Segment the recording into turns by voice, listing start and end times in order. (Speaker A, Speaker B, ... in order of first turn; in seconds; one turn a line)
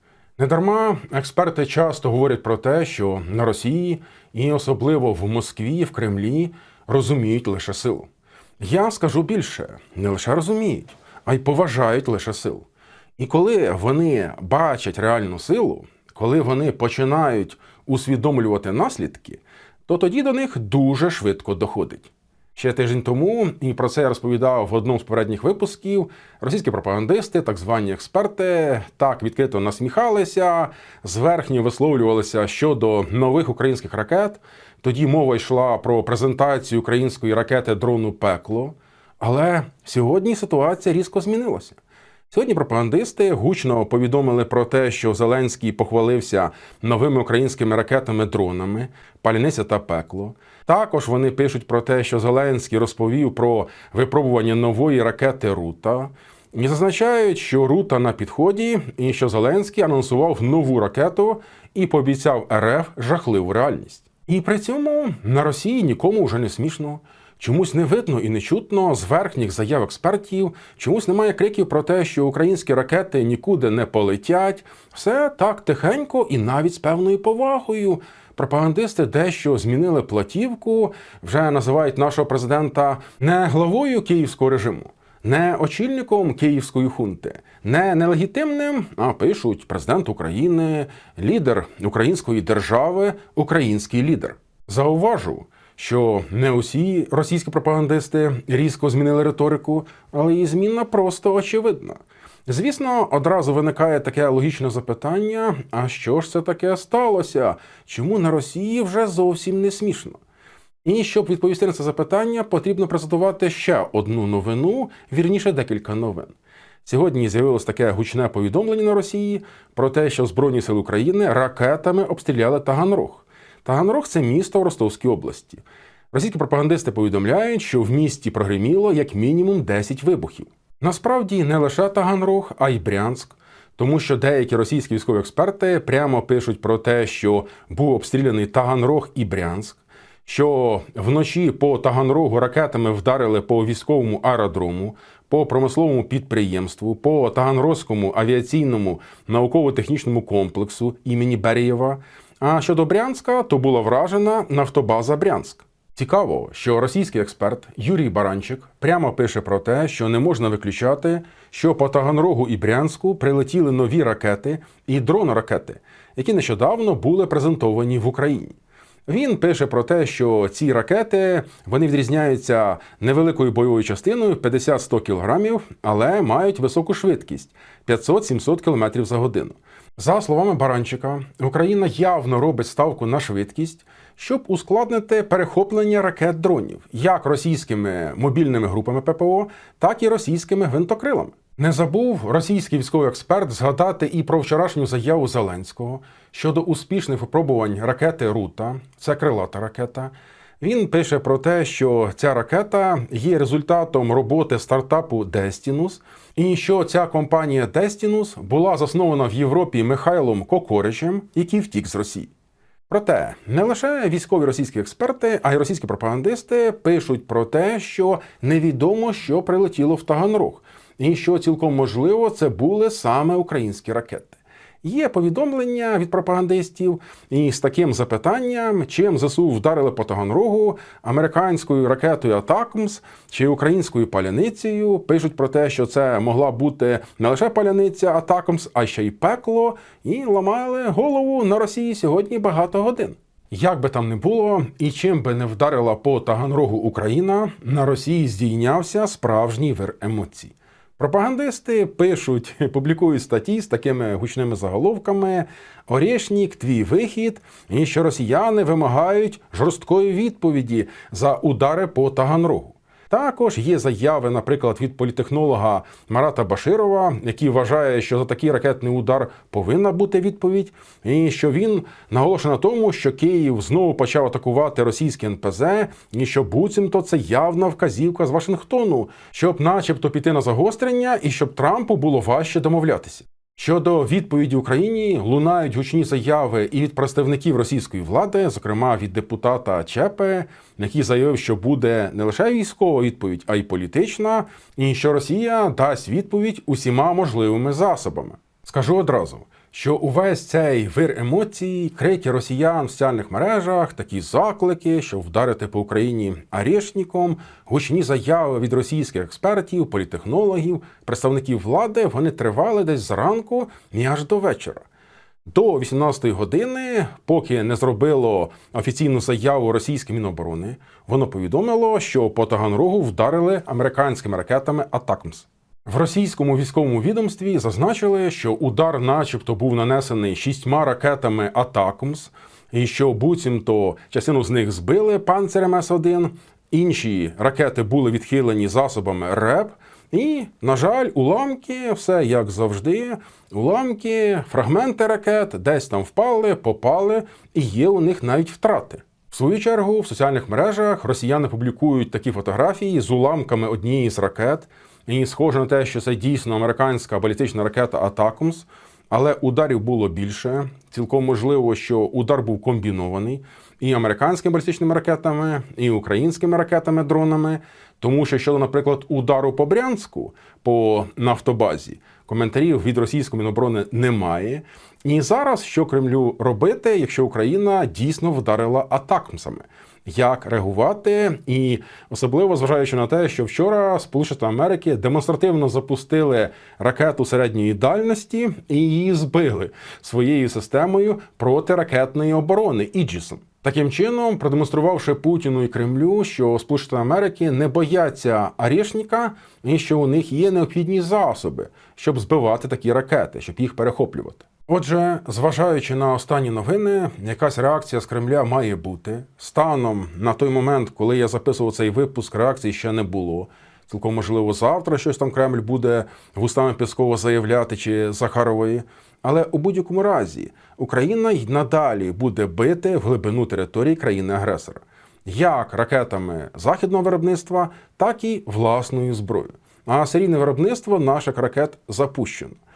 Speaker A: 0.4-8.1
Speaker A: 8.6-12.7
Speaker A: 13.2-41.8
Speaker A: 42.3-110.2
Speaker A: 110.8-168.6
Speaker A: 169.1-212.3
Speaker A: 212.9-314.9
Speaker A: 315.5-432.6